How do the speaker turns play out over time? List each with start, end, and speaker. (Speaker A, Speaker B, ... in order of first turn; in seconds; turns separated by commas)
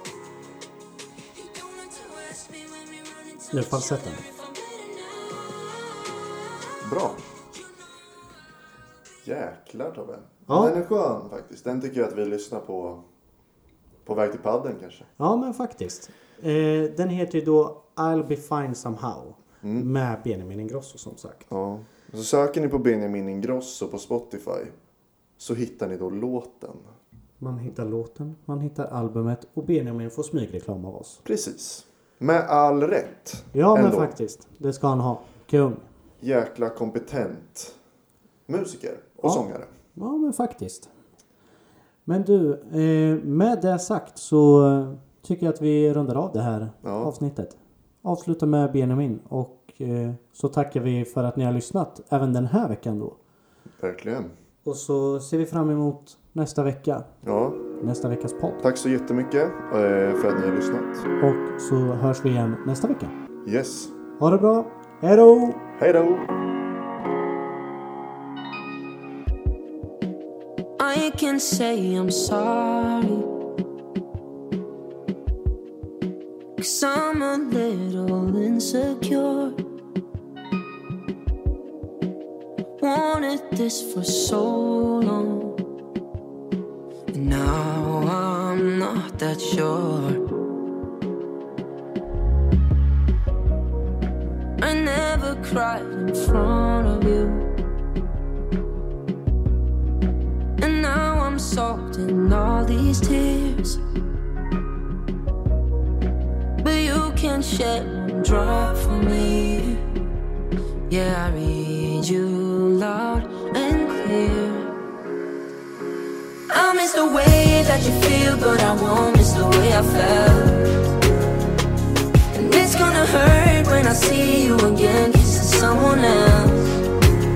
Speaker A: 1.3-8.4, Speaker B: 3.5-4.2, Speaker C: 6.8-7.2, Speaker C: 9.2-13.0, Speaker B: 10.5-10.7, Speaker C: 14.0-15.1, Speaker B: 15.2-21.5, Speaker C: 19.6-19.9, Speaker C: 21.5-24.7, Speaker C: 25.4-26.9, Speaker B: 27.4-31.2, Speaker C: 31.2-34.1, Speaker B: 33.5-35.8, Speaker C: 36.2-37.8, Speaker C: 38.5-39.7, Speaker B: 40.0-40.9, Speaker B: 42.0-53.2, Speaker C: 46.8-47.1, Speaker C: 53.8-54.3, Speaker B: 54.6-57.1, Speaker C: 57.2-57.6, Speaker B: 57.8-58.6, Speaker C: 58.6-61.1, Speaker B: 61.2-63.1, Speaker C: 63.4-63.9, Speaker B: 64.2-65.6, Speaker C: 65.8-66.4, Speaker A: 70.8-73.3, Speaker A: 76.6-79.6, Speaker A: 82.8-85.6, Speaker A: 87.1-90.2, Speaker A: 94.6-97.5, Speaker A: 100.6-103.8, Speaker A: 106.6-109.8, Speaker A: 110.9-114.8, Speaker A: 116.5-120.9, Speaker A: 122.3-126.8